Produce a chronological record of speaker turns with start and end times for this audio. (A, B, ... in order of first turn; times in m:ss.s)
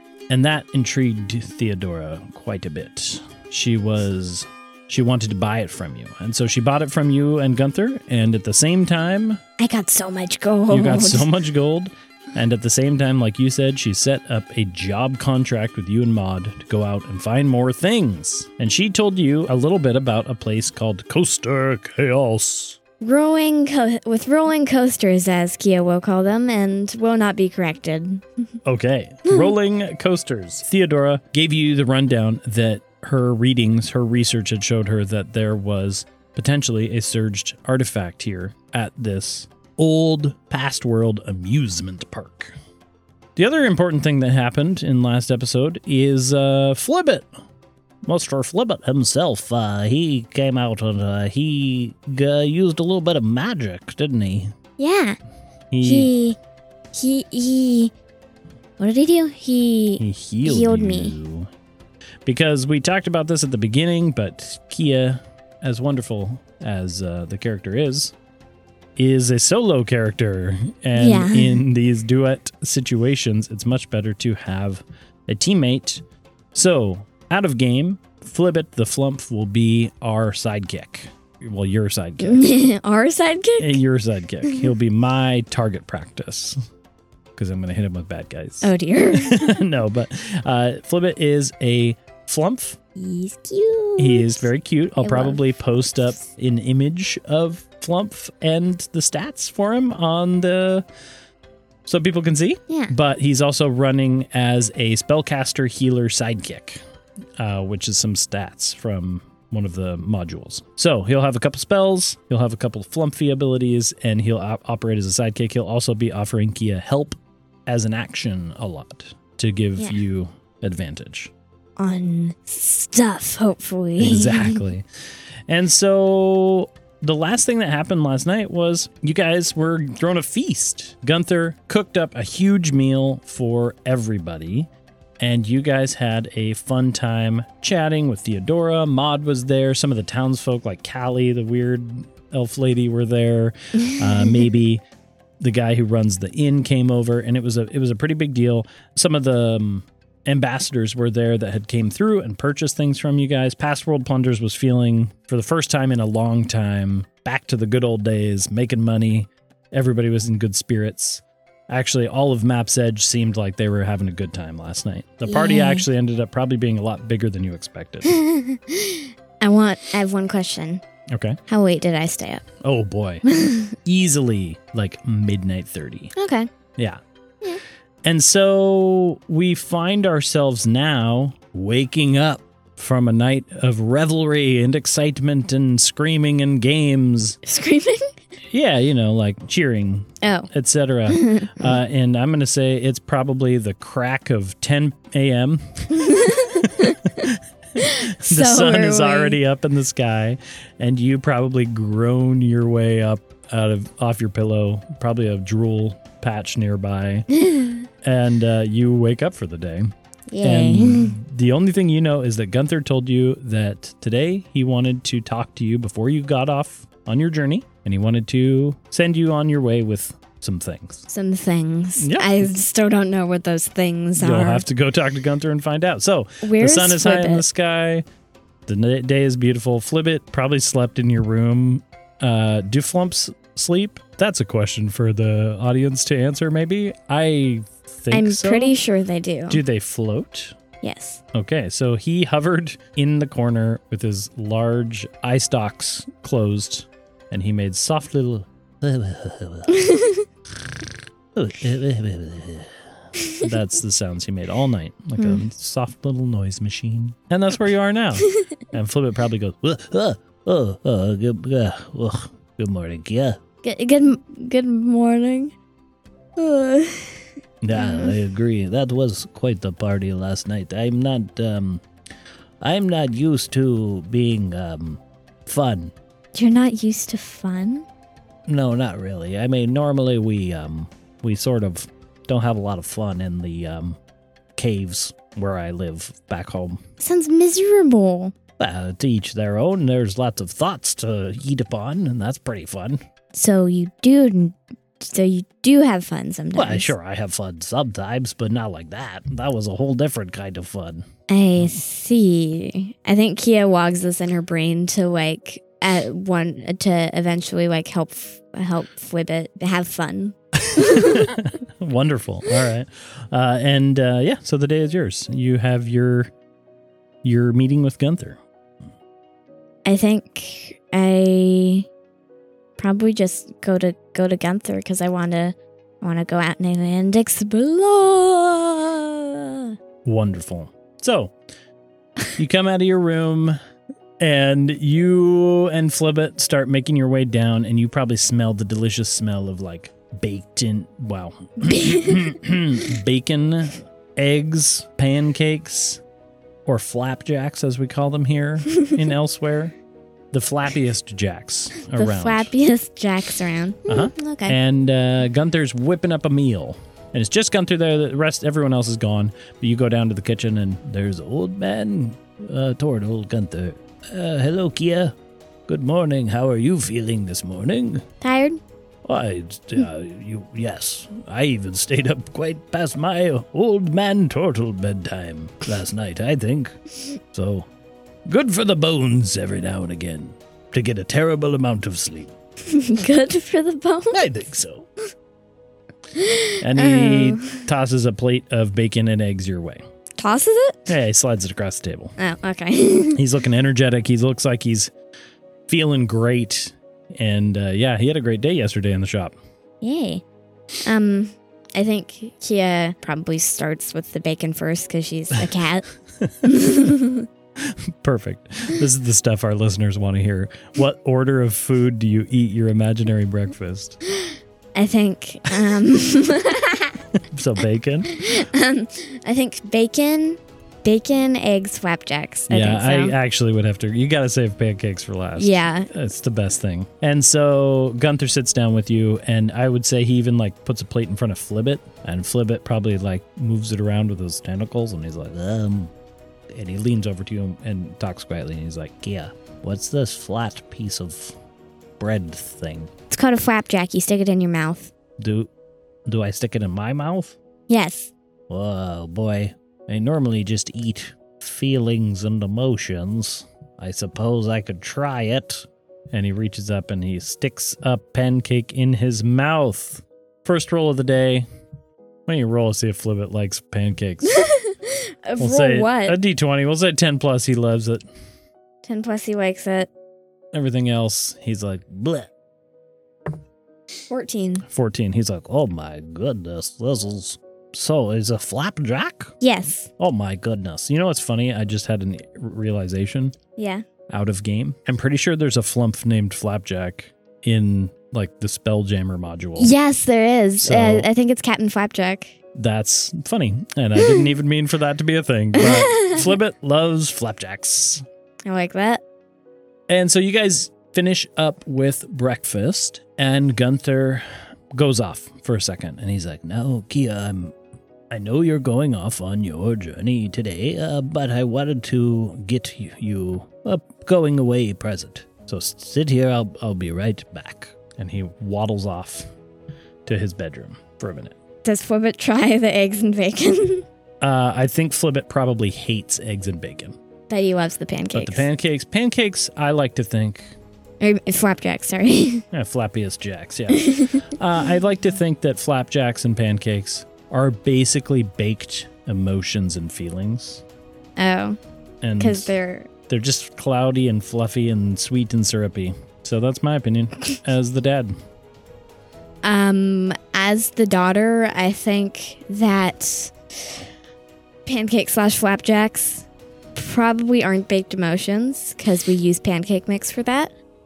0:00.3-0:09.4 A
0:09.6-0:11.3 B
0:10.7-0:22.8 A
0:23.0-0:28.6 B
0:28.6-0:42.5 A
0:29.2-0:29.5 B
0:43.4-0:47.3 A
0:48.0-0:54.5 A
0:54.8-0:55.2 B
0:55.7-0:56.1 A
0:55.8-0:56.4 B
0:56.9-0:57.9 B
0:58.8-1:01.2 B
1:00.0-1:01.5 A
1:02.2-1:08.1 A
1:09.0-1:22.6 A
1:10.9-1:11.6 B
1:22.2-1:23.8 B
1:23.6-1:26.6 A
1:24.4-1:24.7 B
1:27.4-1:32.8 A
1:28.6-1:29.6 B
1:33.0-1:34.5 B
1:34.0-1:40.8 A
1:35.0-1:35.5 B
1:41.8-1:46.8 A
1:47.4-2:01.3 A
2:01.8-2:04.6 B
2:04.0-2:04.8 A
2:05.5-2:24.8 A
2:23.8-2:24.4 B
2:25.4-2:48.2 A
2:45.2-2:45.8 B
2:48.0-2:50.8 B
2:51.1-2:51.4 A
2:51.5-2:52.4 B
2:52.6-2:53.2 A
2:53.3-2:53.8 B
2:53.8-2:56.1 A
2:56.2-2:56.5 B
2:58.0-3:07.4 A
3:07.4-3:08.1 B
3:08.5-3:27.3 A
3:10.2-3:10.5 B
3:11.1-3:11.7 B
3:15.9-3:17.2 B
3:17.8-3:19.4 B
3:27.4-3:27.8 B
3:28.0-3:29.9 A
3:30.3-3:31.2 B
3:30.4-3:41.1 A
3:41.1-3:44.6 B
3:42.0-3:42.5 A
3:44.2-3:48.0 A
3:46.4-3:47.4 B
3:48.6-3:58.7 A
3:58.1-3:59.6 B
3:59.5-4:00.6 A
4:00.8-4:01.2 B
4:01.3-4:09.8 A
4:09.7-4:10.2 B
4:11.3-4:12.8 A
4:13.2-4:13.4 B
4:13.3-4:23.4 A
4:15.2-4:15.4 B
4:23.6-4:25.5 B
4:26.4-4:27.2 B
4:27.6-4:31.8 A
4:27.7-4:28.1 B
4:32.6-4:35.9 A
4:36.3-4:37.8 B
4:38.5-4:44.0 A
4:44.5-4:46.8 A
4:47.0-4:48.3 B
4:48.6-4:53.0 A
4:53.3-4:56.9 B
4:56.5-5:01.0 A
5:01.3-5:11.3 B
5:10.6-5:16.3 A
5:17.2-5:18.4 A
5:19.8-5:21.9 B
5:22.8-5:29.7 B
5:30.0-5:31.3 A
5:32.4-5:33.6 A
5:34.2-5:46.0 A
5:41.6-5:42.2 B
5:46.6-5:49.7 A
5:50.3-5:52.5 A
5:51.9-5:54.6 B
5:53.9-6:05.1 A
6:05.7-6:08.0 A
6:08.2-6:08.6 B
6:09.0-6:17.7 A
6:18.3-6:22.3 A
6:22.6-6:24.2 B
6:24.1-6:24.9 A
6:26.1-6:27.7 B
6:26.6-6:29.8 A
6:30.2-6:30.9 B
6:30.9-6:32.2 A
6:32.2-6:33.2 B
6:33.1-6:34.9 A
6:35.7-6:39.3 A
6:39.8-6:40.2 B
6:40.8-6:45.9 B
6:46.4-6:47.2 B
6:47.6-6:54.0 A
6:54.7-6:57.0 B
6:57.2-6:58.2 A
6:58.1-7:03.2 B
7:02.5-7:15.9 A
7:05.4-7:05.9 B
7:16.5-7:21.4 A
7:22.0-7:22.9 A
7:23.1-7:24.9 B
7:25.2-7:25.5 A
7:26.1-7:27.4 A
7:27.7-7:28.1 B
7:28.5-7:41.4 A
7:42.3-7:44.5 A
7:44.2-7:46.2 B
7:45.4-7:48.0 A
7:48.8-7:49.9 B
7:50.5-7:52.3 A
7:54.1-7:54.6 B
7:54.7-7:59.3 A
7:59.4-7:59.9 B
8:00.0-8:03.4 A
8:03.6-8:03.8 B
8:04.1-8:09.7 A
8:09.6-8:12.3 B
8:10.6-8:11.1 A
8:12.5-8:18.0 A
8:15.5-8:16.2 B
8:18.4-8:19.0 B
8:19.9-8:27.5 A
8:28.1-8:39.3 A
8:40.0-8:41.3 A
8:41.6-8:43.8 B
8:44.2-8:47.0 A
8:47.3-8:48.5 B
8:48.1-8:50.5 A
8:51.0-8:52.4 B
8:52.5-9:00.6 A
8:53.7-8:54.3 B
9:01.2-9:01.6 B
9:02.0-9:02.5 A
9:02.2-9:02.9 B
9:03.1-9:08.1 A
9:09.4-9:13.3 B
9:14.6-9:20.5 B